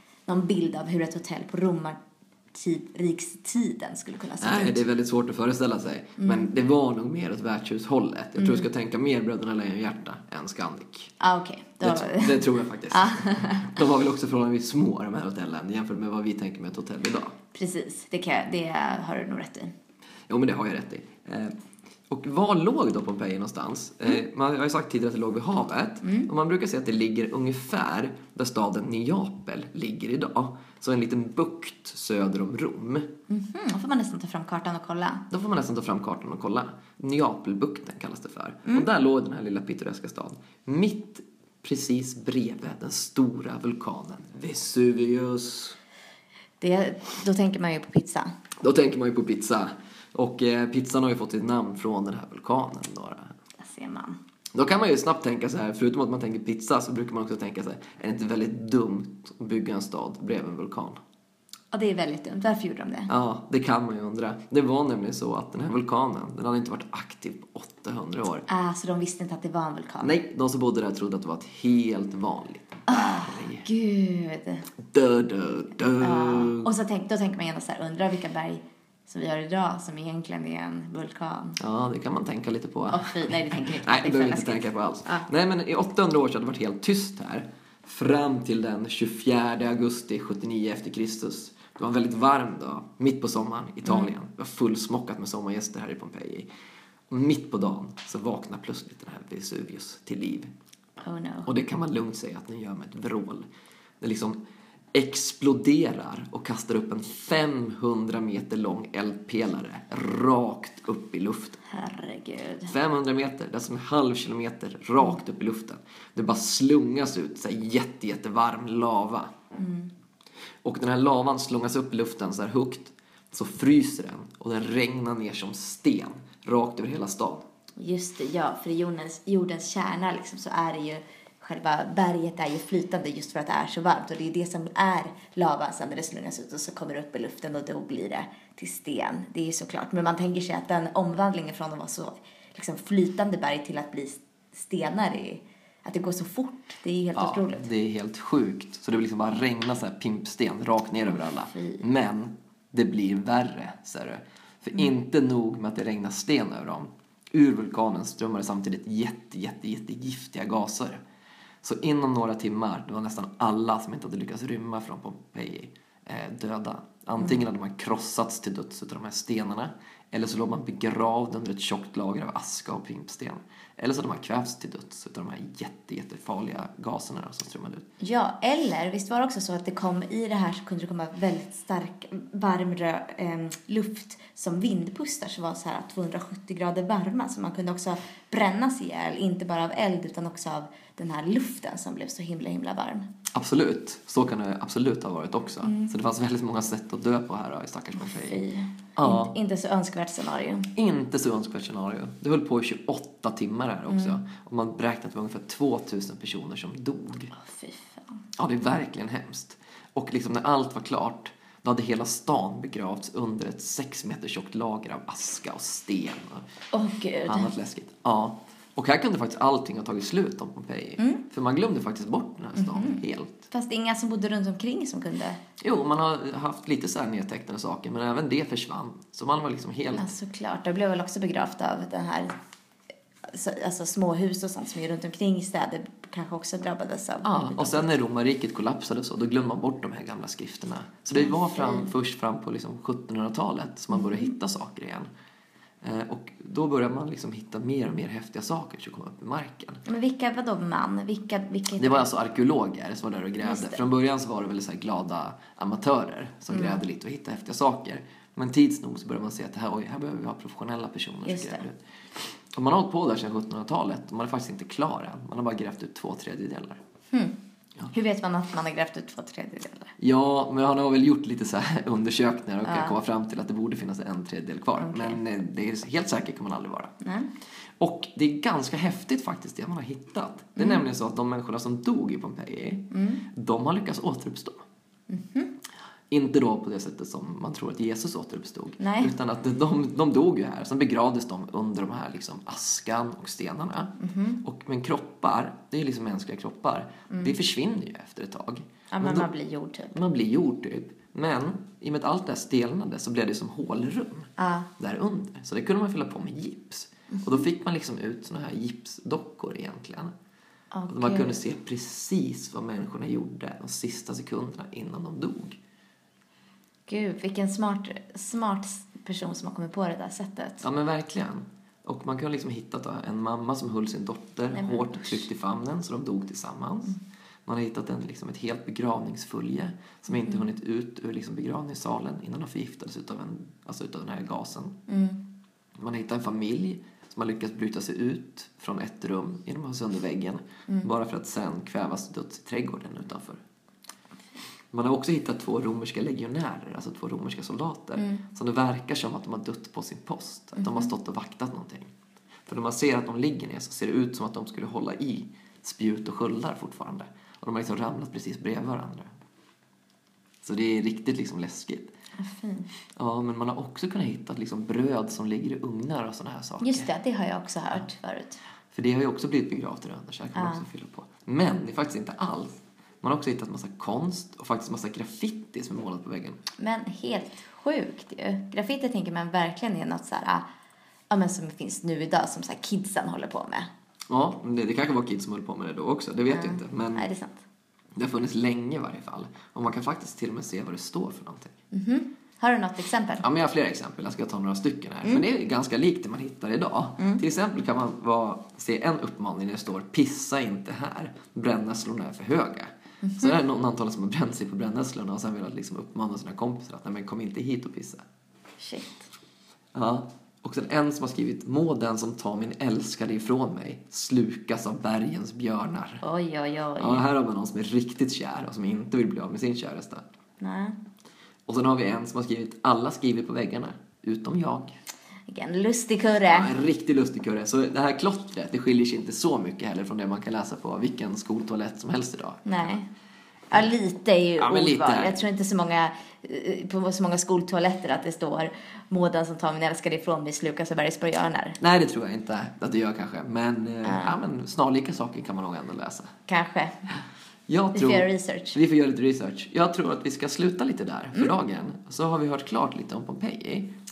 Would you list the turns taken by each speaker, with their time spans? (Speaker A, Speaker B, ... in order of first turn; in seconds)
Speaker A: 0.3-2.0, 2.5-4.8, 6.2-6.5, 8.4-8.7, 11.2-13.8, 17.5-19.7, 26.0-26.3, 33.3-35.2, 46.6-48.3, 53.6-54.2, 61.7-63.1, 68.5-70.1, 72.9-74.7, 76.0-81.6, 82.9-85.3, 93.8-94.1, 101.0-101.5, 111.7-112.7, 119.5-119.9, 127.8-147.7, 151.2-151.8, 178.0-193.1, 195.6-195.9, 198.0-200.7, 203.9-204.2, 207.3-208.2, 216.7-217.5, 222.5-225.4, 229.9-232.3, 233.3-237.9, 241.1-241.9, 243.9-244.3, 249.8-252.1, 253.4-253.8, 256.5-256.8, 261.2-261.6, 267.1-267.4, 267.9-269.9, 272.6-272.9, 274.8-275.2, 277.0-277.3, 280.6-280.8, 282.9-283.2, 285.1-285.5, 288.8-289.1, 294.0-294.4, 297.1-297.3, 298.9-300.0, 304.4-304.7, 307.1-307.4, 310.7-311.4, 316.9-320.6, 324.5-325.3, 330.1-330.4, 334.9-335.2, 348.0-348.2, 350.6-350.9, 362.2-362.7, 366.6-368.4, 370.3-370.7, 376.6-380.4, 381.1-383.7, 386.3-387.4, 391.7-393.2, 403.0-403.4, 408.6-409.1, 416.0-417.0, 420.4-420.8, 425.3-426.5, 432.4-432.9, 433.5-441.6, 443.8-444.2, 446.3-446.9, 447.7-448.6
Speaker B: 4.4-11.1, 11.8-17.3, 20.3-21.5, 22.1-33.1, 35.3-45.8, 48.6-53.3, 54.5-61.0, 63.1-68.5, 70.0-73.7, 74.9-76.7, 81.6-96.5, 97.1-100.5, 101.5-103.5, 104.0-104.4, 104.9-111.6, 112.7-119.3, 120.6-127.4, 147.2-161.0, 161.6-177.8, 193.3-198.4, 199.0-199.3, 200.7-207.3, 208.4-216.4, 217.2-223.5, 225.6-230.1, 237.2-245.1, 245.8-249.8, 251.8-261.8, 262.5-266.8, 270.0-276.9, 277.8-284.6, 286.1-299.3, 299.9-310.1, 310.9-315.6, 320.6-334.8, 335.8-343.4, 344.7-351.9, 352.4-359.1, 360.4-361.9, 362.9-366.9, 368.7-376.4, 384.1-387.1, 387.9-391.5, 393.2-408.0, 409.7-416.0, 416.8-420.0, 421.5-424.7, 426.2-432.7, 434.4-435.2, 441.6-446.1, 447.5-453.7